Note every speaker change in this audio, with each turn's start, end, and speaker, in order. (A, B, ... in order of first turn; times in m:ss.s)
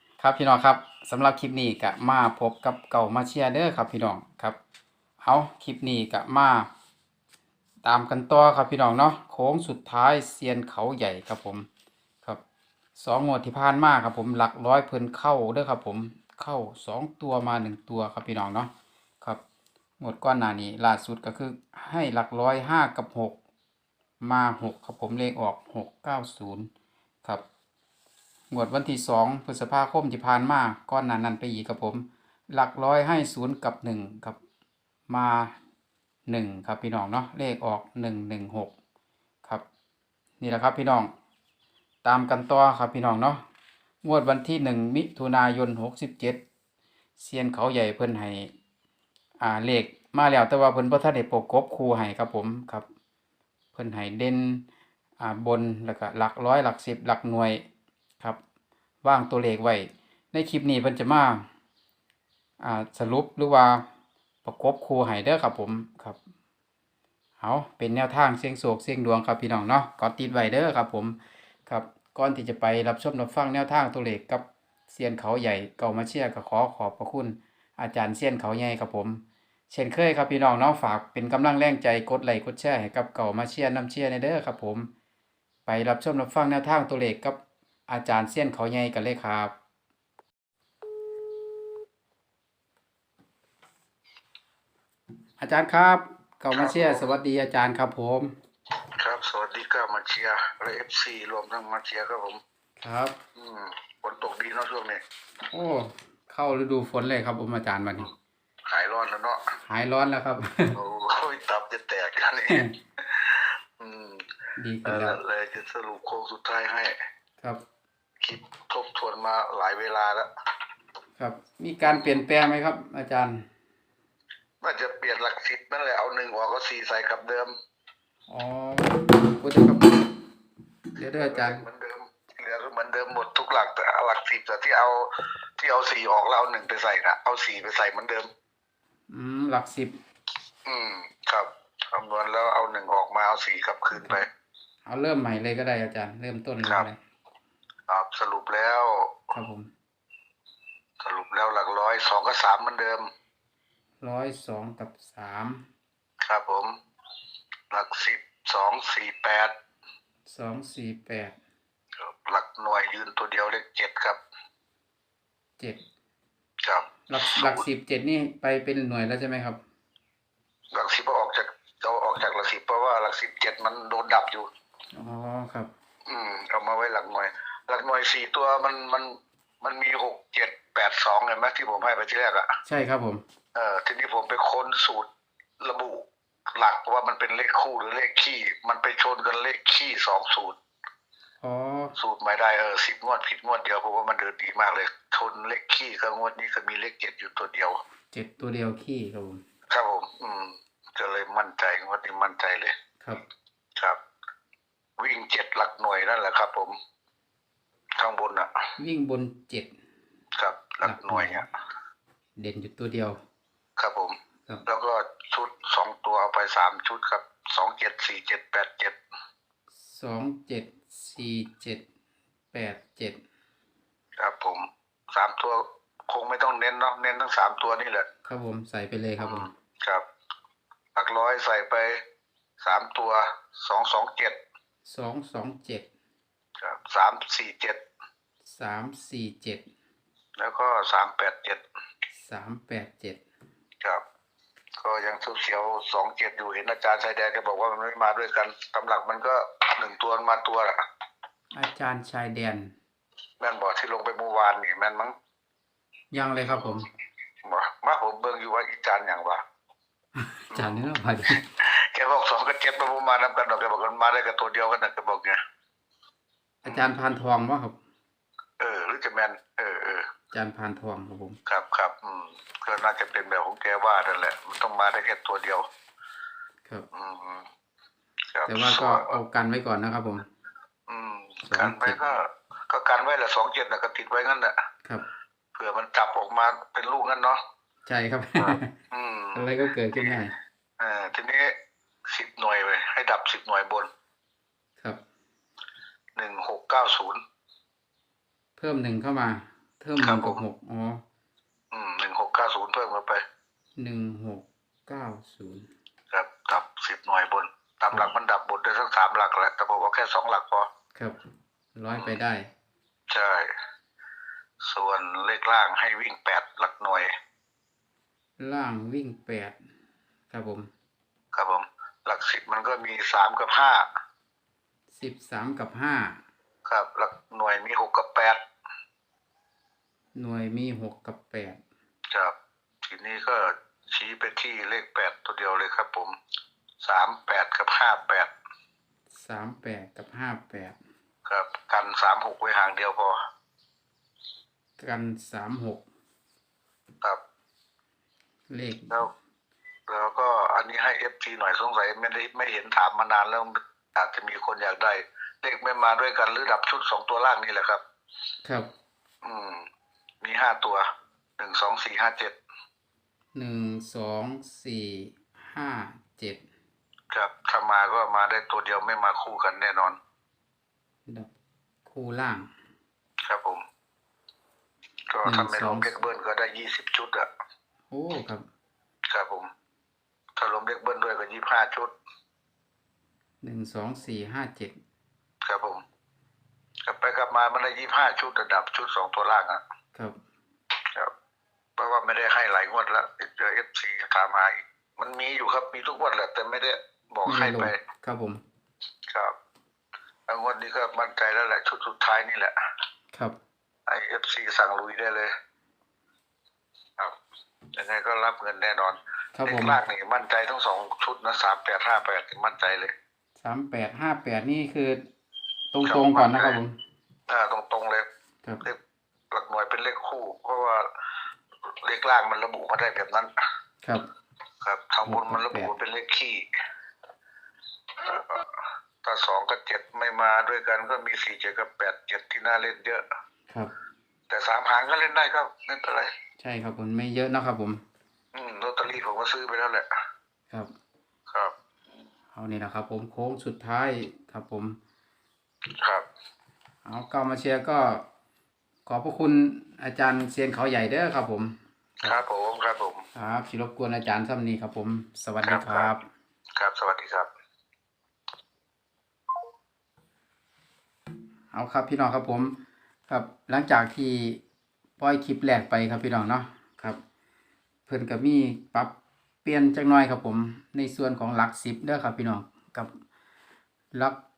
0:00.2-0:04.6 A
0:05.2-0:06.7 A
0:07.8-0:11.7 A
0:13.0-0:19.4 A
0:20.0-0:23.4 A
0:24.2-0:26.7 A
0:28.5-0:34.4 A
0:35.1-0:35.5 A
0:36.3-0:38.7 A
0:40.4-0:41.1 A
0:42.0-0:43.4 A
0:44.0-0:46.4 A
0:47.2-0:48.5 A
0:49.4-0:52.8 A
0:53.7-0:54.6 A
0:55.2-0:57.6 A
0:59.0-1:01.4 A
1:02.6-1:03.8 A
1:04.4-1:06.2 A
1:07.4-1:24.9 A
1:25.6-1:29.5 A
1:35.4-1:38.3 A
1:36.5-1:37.0 B
1:39.0-1:42.4 B
1:42.8-1:43.2 A
1:43.4-1:45.0 B
1:45.5-1:48.1 A
1:48.7-1:49.5 B
1:49.6-1:50.8 A
1:50.7-1:54.2 B
1:54.6-1:55.2 A
1:54.8-1:56.9 B
1:58.2-2:00.3 B
2:01.2-2:03.4 A
2:04.6-2:07.5 B
2:08.3-2:10.2 A
2:11.0-2:11.6 A
2:11.2-2:18.3 B
2:19.1-2:20.0 A
2:20.6-2:24.3 B
2:24.8-2:27.0 A
2:27.9-2:29.2 B
2:29.3-2:29.7 A
2:31.0-2:33.0 B
2:34.0-2:35.6 A
2:36.2-2:36.7 B
2:37.7-2:39.5 B
2:40.2-2:41.4 A
2:42.0-2:44.2 B
2:46.6-2:47.6 B
2:47.1-2:49.6 A
2:50.7-2:54.5 B
2:54.9-2:55.7 A
2:56.0-3:02.5 B
3:02.6-3:03.2 A
3:03.5-3:05.1 B
3:05.6-3:10.6 B
3:11.4-3:12.0 A
3:12.0-3:17.8 B
3:18.1-3:19.4 A
3:19.7-3:22.7 B
3:25.0-3:26.7 B
3:28.0-3:28.5 B
3:28.8-3:29.7 A
3:30.4-3:31.4 B
3:30.8-3:31.4 A
3:32.4-3:33.2 A
3:33.8-3:39.0 B
3:39.8-3:41.8 A
3:42.5-3:43.2 A
3:44.2-3:48.1 B
3:48.2-3:49.5 A
3:49.2-3:50.0 B
3:50.9-3:52.0 B
3:52.6-3:54.4 B
3:54.8-3:55.9 A
3:56.6-3:57.8 B
3:58.4-3:59.6 A
4:00.4-4:01.6 B
4:02.1-4:03.2 A
4:04.8-4:10.8 B
4:11.5-4:12.7 A
4:13.4-4:15.1 B
4:16.1-4:16.9 A
4:17.4-4:19.4 B
4:20.2-4:21.4 A
4:20.5-4:20.8 B
4:21.5-4:25.4 B
4:26.6-4:27.8 A
4:28.6-4:30.0 B
4:30.3-4:31.4 A
4:31.5-4:35.6 B
4:36.9-4:37.5 B
4:38.3-4:39.2 B
4:38.5-4:40.2 A
4:40.9-4:44.5 B
4:41.4-4:42.0 A
4:45.6-4:47.4 B
4:47.8-4:48.7 A
4:48.9-4:49.5 B
4:49.3-4:50.3 A
4:50.8-4:51.5 B
4:52.1-4:53.9 B
4:56.2-4:57.2 B
4:58.6-5:01.0 A
5:00.0-5:00.4 B
5:01.7-5:03.2 B
5:03.8-5:05.7 A
5:06.1-5:10.7 B
5:11.8-5:12.5 A
5:13.1-5:13.5 B
5:14.6-5:17.1 B
5:18.4-5:19.6 A
5:20.3-5:20.7 A
5:21.3-5:23.8 B
5:24.9-5:26.2 A
5:26.7-5:28.4 B
5:30.1-5:31.6 A
5:32.1-5:36.2 B
5:36.8-5:38.3 B
5:39.1-5:40.8 A
5:41.2-5:43.2 B
5:44.8-5:45.8 A
5:48.5-5:49.0 A
5:49.9-5:57.8 B
5:58.4-5:58.7 A
5:59.2-5:59.6 B
6:00.2-6:00.8 B
6:01.4-6:02.4 B
6:03.3-6:06.4 A
6:07.1-6:10.0 B
6:11.1-6:11.3 A
6:11.8-6:12.5 A
6:13.2-6:13.6 B
6:15.1-6:17.3 B
6:15.2-6:16.0 A
6:17.9-6:18.4 A
6:19.1-6:19.5 B
6:20.4-6:21.9 B
6:23.4-6:24.8 A
6:25.4-6:25.8 B
6:26.8-6:29.6 B
6:31.8-6:37.8 B
6:37.2-6:38.4 A
6:40.3-6:42.5 B
6:43.9-6:45.3 B
6:47.7-6:52.9 B
6:49.3-6:49.8 A
6:53.4-6:55.0 A
6:55.7-6:56.8 A
6:55.8-6:56.6 B
6:57.3-6:58.0 B
6:59.3-7:00.8 B
7:01.8-7:03.3 B
7:04.6-7:06.4 B
7:05.0-7:05.7 A
7:08.0-7:13.0 B
7:14.3-7:16.1 B
7:16.4-7:17.8 A
7:18.3-7:19.9 B
7:22.3-7:24.8 A
7:26.8-7:28.0 A
7:28.8-7:32.1 A
7:32.0-7:33.0 B
7:33.1-7:36.0 A
7:35.4-7:35.9 B
7:36.6-7:37.3 B
7:41.5-7:44.4 A
7:45.0-7:47.0 A
7:47.9-7:52.9 A